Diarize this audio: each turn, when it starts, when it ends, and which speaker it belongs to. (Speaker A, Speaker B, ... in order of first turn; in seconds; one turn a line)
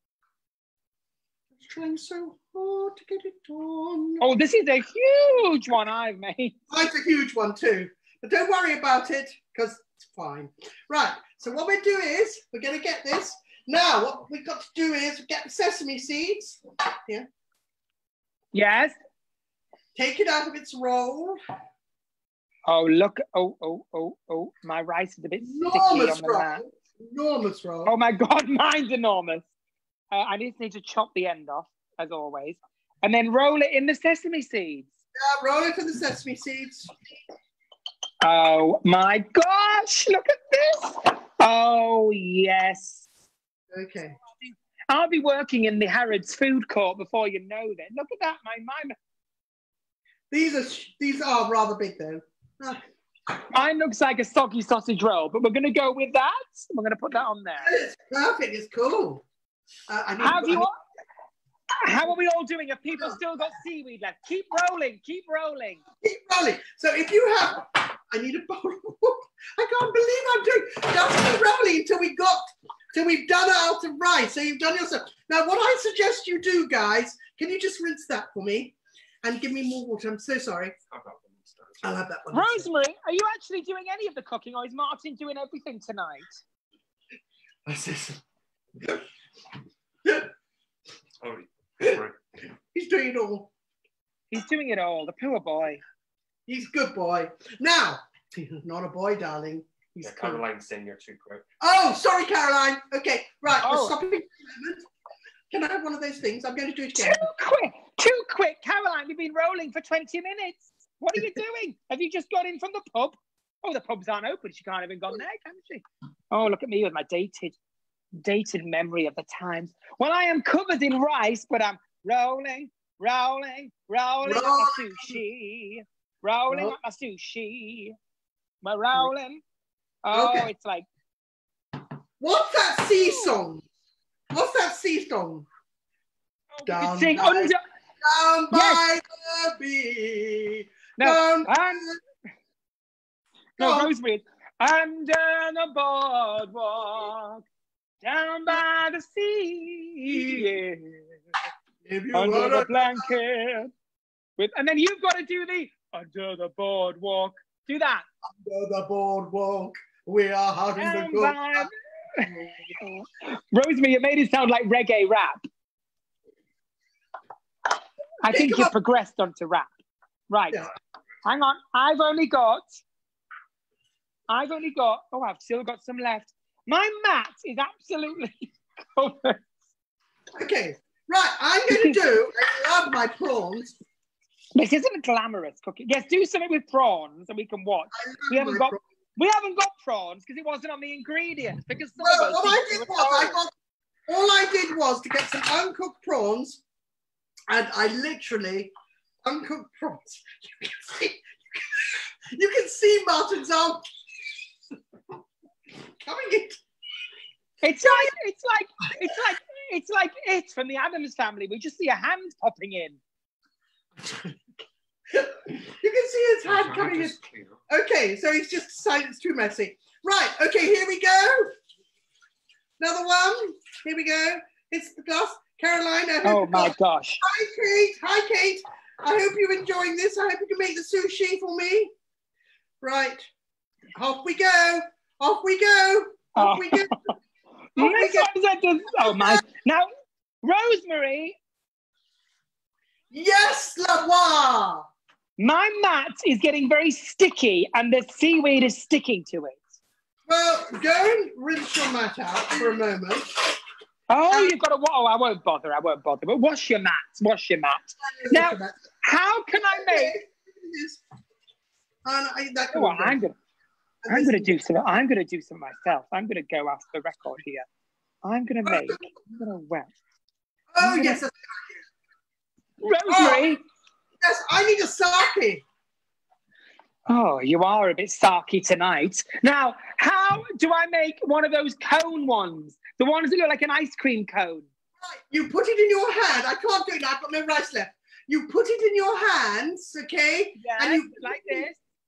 Speaker A: 1.6-4.3
Speaker B: 4.2-6.6
Speaker A: 6.7-17.3
Speaker B: 18.5-18.9
Speaker A: 20.0-21.4
Speaker B: 22.7-26.6
Speaker A: 25.4-27.9
Speaker B: 27.9-29.5
Speaker B: 30.1-34.9
Speaker A: 35.2-36.9
Speaker B: 38.2-43.0
Speaker A: 43.7-44.2
Speaker B: 44.4-49.0
Speaker A: 50.3-52.8
Speaker B: 53.5-57.7
Speaker A: 57.6-59.2
Speaker A: 59.9-60.7
Speaker B: 60.2-60.8
Speaker B: 61.8-65.8
Speaker A: 66.0-80.8
Speaker C: 80.9-81.8
Speaker A: 81.8-82.7
Speaker B: 82.3-86.4
Speaker A: 87.7-88.2
Speaker A: 90.0-90.3
Speaker C: 91.2-92.2
Speaker A: 92.7-93.5
Speaker B: 94.3-95.8
Speaker A: 96.5-100.5
Speaker C: 100.0-101.5
Speaker A: 101.6-104.9
Speaker B: 103.6-104.0
Speaker A: 105.5-107.3
Speaker B: 107.0-117.6
Speaker B: 118.2-128.0
Speaker A: 124.2-125.2
Speaker A: 126.5-126.8
Speaker B: 128.6-129.4
Speaker B: 130.1-130.9
Speaker A: 130.1-130.5
Speaker A: 132.2-133.7
Speaker B: 132.9-133.3
Speaker A: 134.3-135.5
Speaker B: 136.5-137.6
Speaker A: 136.7-142.0
Speaker B: 138.5-138.9
Speaker B: 141.0-141.9
Speaker B: 143.6-147.4
Speaker A: 143.6-143.9
Speaker B: 148.0-151.2
Speaker A: 151.8-153.1
Speaker B: 152.1-153.7
Speaker B: 154.4-158.1
Speaker A: 158.3-162.8
Speaker B: 160.8-162.3
Speaker B: 162.8-165.4
Speaker B: 168.2-169.7
Speaker A: 168.3-168.7
Speaker B: 170.3-170.6
Speaker B: 171.2-172.8
Speaker B: 174.3-179.4
Speaker A: 180.4-183.8
Speaker B: 181.7-182.0
Speaker B: 184.6-193.4
Speaker A: 187.9-188.8
Speaker A: 192.0-193.5
Speaker A: 194.1-196.6
Speaker A: 197.5-198.7
Speaker A: 199.2-203.9
Speaker A: 206.0-206.6
Speaker B: 207.6-213.0
Speaker A: 207.8-208.1
Speaker A: 214.0-214.4
Speaker A: 215.1-221.6
Speaker C: 216.5-217.6
Speaker A: 222.8-231.9
Speaker B: 226.2-227.2
Speaker A: 232.8-233.3
Speaker A: 233.9-237.2
Speaker B: 236.4-236.9
Speaker B: 237.8-239.9
Speaker A: 237.8-238.3
Speaker A: 239.0-239.4
Speaker B: 240.4-241.4
Speaker A: 243.1-244.9
Speaker B: 245.4-249.6
Speaker A: 250.3-253.6
Speaker B: 254.1-260.2
Speaker A: 258.0-258.8
Speaker A: 259.5-261.0
Speaker A: 262.1-263.2
Speaker B: 262.7-263.4
Speaker A: 264.1-264.6
Speaker B: 264.1-267.7
Speaker B: 268.2-269.9
Speaker A: 268.6-269.2
Speaker A: 270.7-271.8
Speaker B: 270.8-271.2
Speaker B: 272.8-273.6
Speaker A: 273.1-273.6
Speaker A: 274.2-275.6
Speaker B: 277.1-284.7
Speaker A: 285.0-291.7
Speaker B: 290.6-291.8